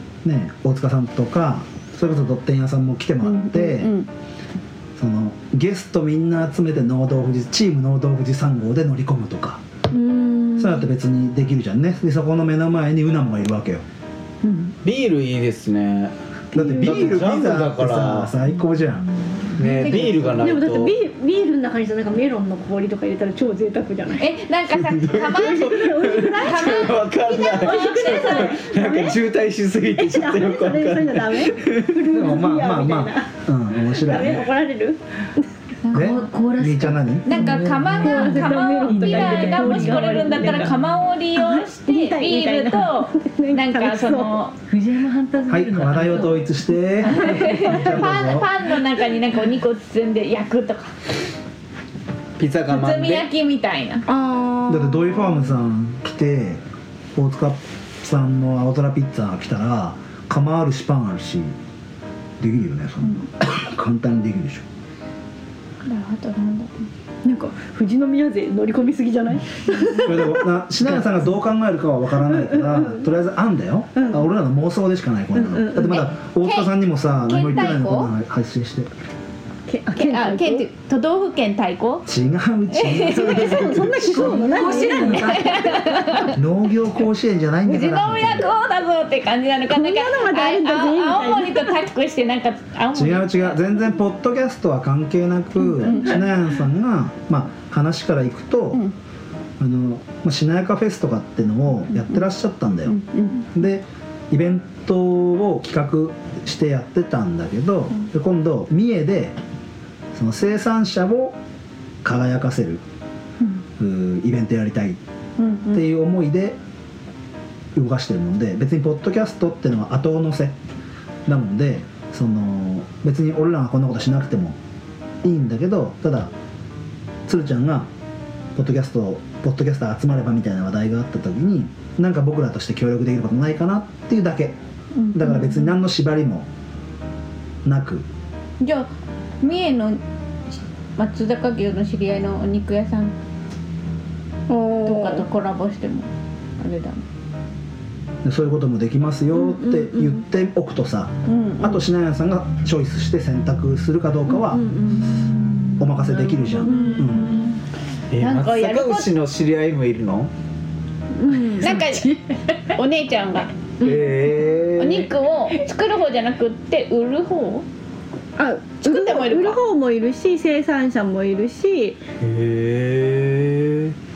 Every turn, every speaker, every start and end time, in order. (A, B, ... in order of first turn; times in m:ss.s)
0:00.2-0:03.9 A
0:03.2-0:04.1 B
0:05.0-0:09.6 A
0:09.9-0:10.9 C
0:10.6-0:13.8 A
0:14.8-0:18.3 D
0:16.5-0:19.1 A
0:16.6-0:17.0 C
0:18.7-0:19.9 E
0:19.6-0:20.9 D
0:19.6-0:20.3 B
0:19.8-0:24.4 C
0:24.2-0:28.6 B
0:24.7-0:32.0 D
0:25.2-0:29.2 C
0:29.9-0:33.3 C
0:32.1-0:34.5 A
0:33.8-0:35.5 C
0:35.9-0:36.1 B
0:35.9-0:40.7 E
0:35.9-0:37.5 A
0:37.3-0:44.6 B
0:38.0-0:40.7 C
0:41.3-0:44.4 C
0:44.7-0:48.1 E
0:45.5-0:48.5 A
0:47.1-0:51.0 B
0:52.4-0:53.3 D
0:52.7-0:54.0 B
0:54.1-0:55.6 C
0:54.7-0:56.6 A
0:57.2-1:01.6 A
1:02.4-1:04.6 A
1:05.8-1:06.8 B
1:07.2-1:11.0 C
1:10.0-1:18.9 A
1:12.2-1:13.1 C
1:14.0-1:14.2 C
1:15.3-1:16.1 C
1:16.4-1:16.7 B
1:17.2-1:18.1 B
1:19.7-1:20.7 C
1:20.0-1:22.1 B
1:22.1-1:24.4 A
1:22.7-1:23.8 B
1:23.0-1:26.2 C
1:24.0-1:25.9 E
1:24.5-1:26.4 B
1:26.3-1:28.5 A
1:27.6-1:33.8 B
1:29.7-1:31.8 C
1:32.9-1:38.8 A
1:35.8-1:36.2 B
1:39.6-1:43.0 A
1:41.9-1:42.2 B
1:42.9-1:43.5 B
1:43.5-1:49.4 A
1:50.1-1:51.4 A
1:52.0-1:52.8 A
1:53.8-1:55.0 A
1:55.4-1:55.8 B
1:55.7-1:56.6 A
1:57.8-2:00.6 A
2:01.3-2:04.6 A
2:05.2-2:06.3 A
2:07.3-2:07.9 A
2:08.6-2:14.6 A
2:15.1-2:16.5 A
2:15.2-2:15.5 B
2:17.6-2:18.0 A
2:18.6-2:18.9 B
2:19.4-2:20.0 B
2:20.5-2:23.2 B
2:24.5-2:25.3 C
2:24.8-2:27.0 B
2:28.2-2:34.7 A
2:29.3-2:30.2 C
2:31.2-2:31.8 B
2:34.3-2:35.2 C
2:35.6-2:37.6 E
2:35.8-2:37.3 A
2:36.6-2:37.5 C
2:38.1-2:40.3 D
2:38.2-2:39.1 B
2:41.1-2:41.8 C
2:41.4-2:42.6 E
2:41.6-2:43.5 B
2:43.8-2:44.1 C
2:43.8-2:45.1 D
2:44.8-2:47.6 B
2:48.4-2:52.0 C
2:48.8-2:49.6 B
2:52.2-2:54.0 D